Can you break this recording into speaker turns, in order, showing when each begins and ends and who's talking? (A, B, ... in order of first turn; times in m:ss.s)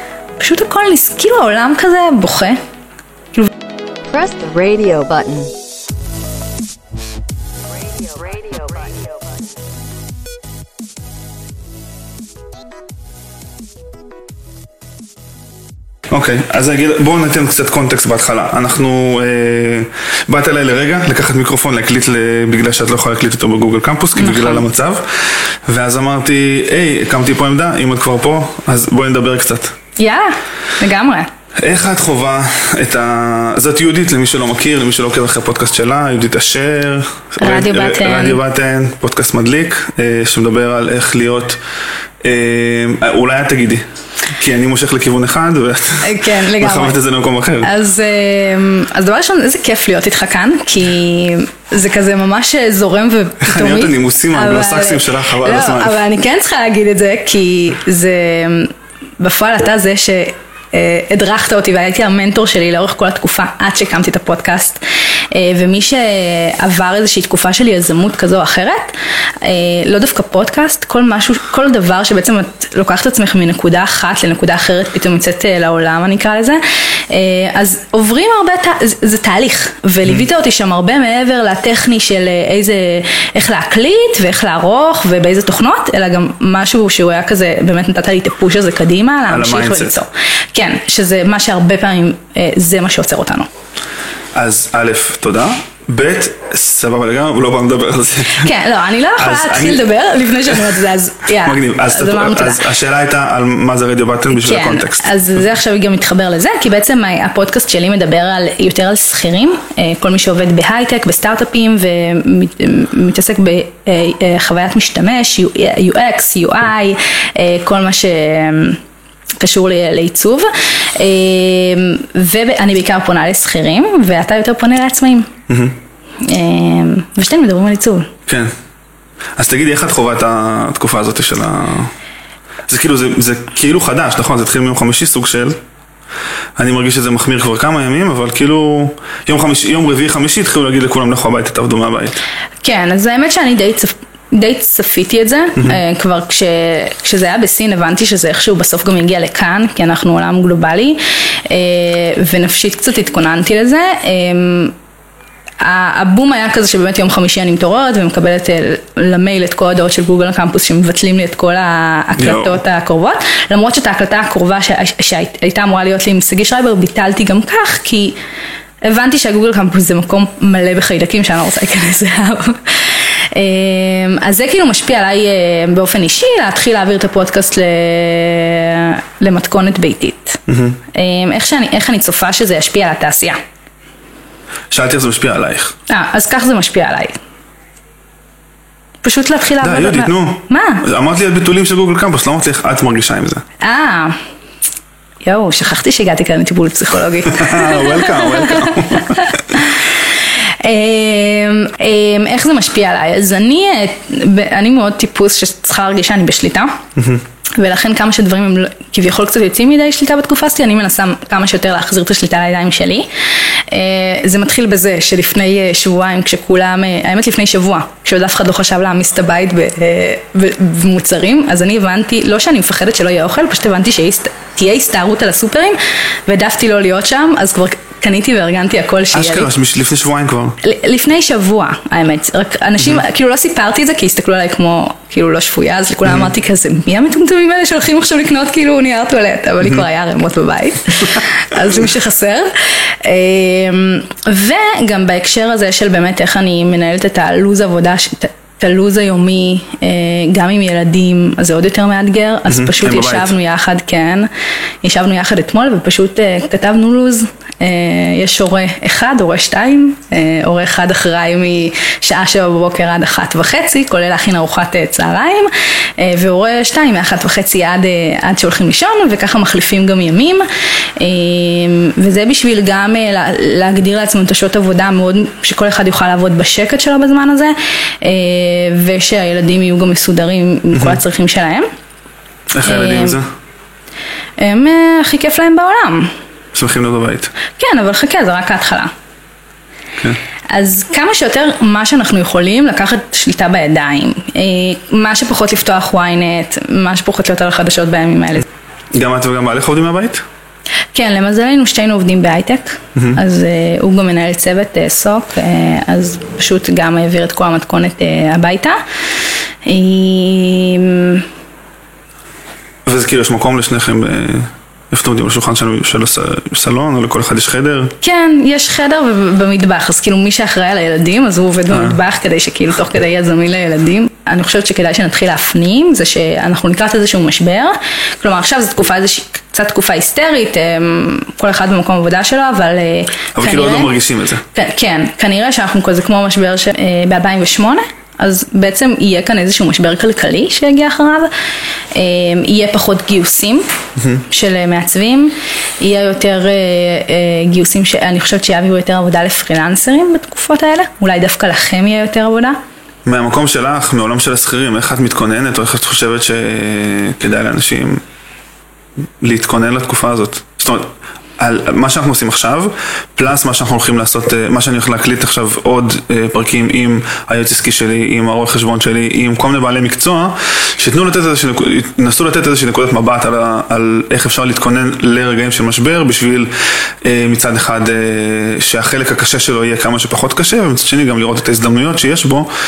0:00.4-0:02.6 A
0:04.1-0:05.5 B
0:08.3-0:08.9 B
0:16.1-0:29.7 C
0:24.2-0:24.7 A
0:30.0-0:31.3 A
0:31.6-0:41.6 C
0:37.4-0:38.4 A
0:42.2-0:47.7 C
0:46.0-0:47.0 A
0:47.6-1:33.5 A
0:53.4-0:56.0 C
1:29.3-1:30.0 C
1:34.4-1:38.5 C
1:38.3-1:42.6 A
1:39.2-1:39.9 C
1:40.4-1:40.8 C
1:41.4-1:45.2 C
1:44.3-1:58.8 A
1:59.4-2:05.3 A
2:05.5-2:05.8 C
2:06.2-2:08.1 A
2:09.4-2:11.9 C
2:12.7-2:15.6 C
2:16.6-2:22.2 C
2:22.6-2:34.8 A
2:35.6-2:48.2 A
2:42.2-2:42.6 C
2:48.8-3:00.4 A
3:00.5-3:00.8 C
3:00.9-3:03.4 A
3:04.7-3:05.7 C
3:05.9-3:07.1 A
3:09.0-3:10.8 A
3:09.6-3:13.4 C
3:13.6-3:14.2 A
3:15.2-3:19.9 A
3:17.3-3:19.3 C
3:20.6-3:26.8 A
3:27.0-3:27.2 C
3:27.6-3:49.5 A
3:49.1-3:50.6 C
3:50.6-4:14.3 A
4:12.5-4:13.3 C
4:14.8-4:30.4 A
4:31.0-4:41.7 A
4:40.7-4:41.0 C
4:42.5-4:43.2 C
4:42.6-4:43.2 A
4:44.4-4:46.1 A
4:46.5-4:47.3 C
4:47.6-4:48.9 A
4:50.5-4:58.5 A
4:58.9-5:00.2 C
5:00.9-5:08.8 A
5:09.6-5:11.3 A
5:12.9-5:17.9 C
5:18.0-5:34.0 A
5:21.7-5:22.0 C
5:33.4-5:34.4 C
5:34.5-5:41.3 A
5:41.9-5:43.7 A
5:44.0-5:44.2 C
5:44.3-5:52.6 A
5:53.0-5:58.0 C
5:59.2-6:16.5 C
6:17.0-6:22.5 C